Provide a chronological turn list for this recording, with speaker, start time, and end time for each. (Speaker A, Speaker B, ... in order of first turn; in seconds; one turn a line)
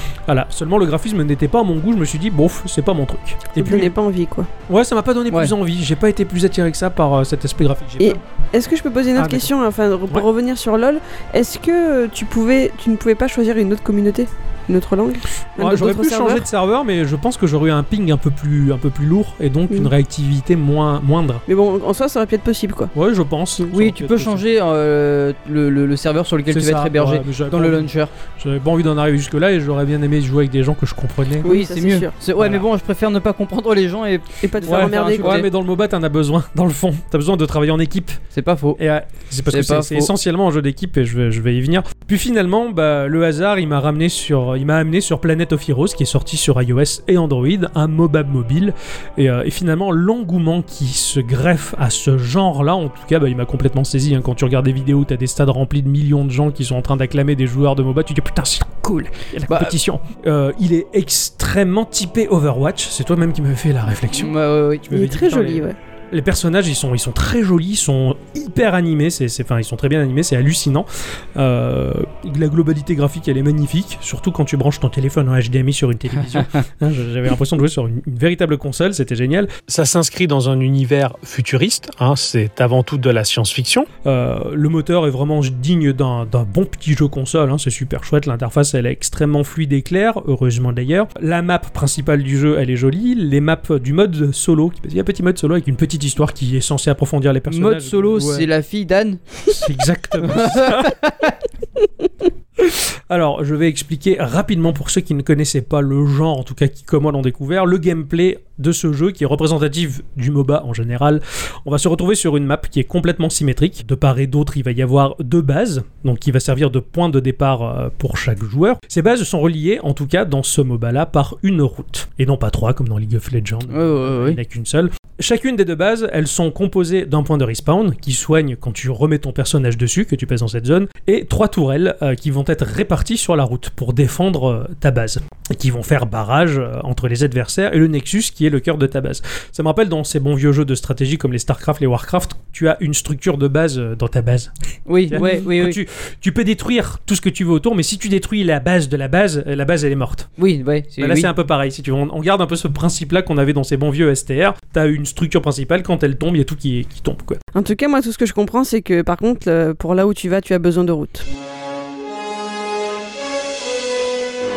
Speaker A: 0.3-3.9
Speaker B: 3.6-4.5
Speaker A: 4.7-8.2
Speaker B: 8.0-16.4
Speaker A: 9.2-9.5
Speaker A: 15.6-21.4
Speaker B: 21.5-22.9
Speaker A: 22.9-24.4
Speaker C: 23.7-28.1
Speaker A: 26.5-31.5
Speaker B: 31.4-32.1
Speaker C: 31.4-35.5
Speaker A: 32.4-32.6
Speaker B: 34.4-35.5
Speaker A: 34.7-38.2
Speaker C: 38.3-38.8
Speaker A: 38.8-98.5
Speaker C: 39.5-40.1
Speaker C: 59.5-59.8
Speaker C: 64.1-64.9
Speaker B: 64.9-65.8
Speaker C: 97.5-99.4
Speaker A: 99.5-101.0
Speaker C: 100.2-101.3
Speaker A: 102.6-144.5
Speaker C: 123.7-124.4
Speaker C: 144.9-145.8
Speaker A: 145.1-150.3
Speaker C: 150.4-151.3
Speaker A: 151.0-157.4
Speaker B: 157.5-161.3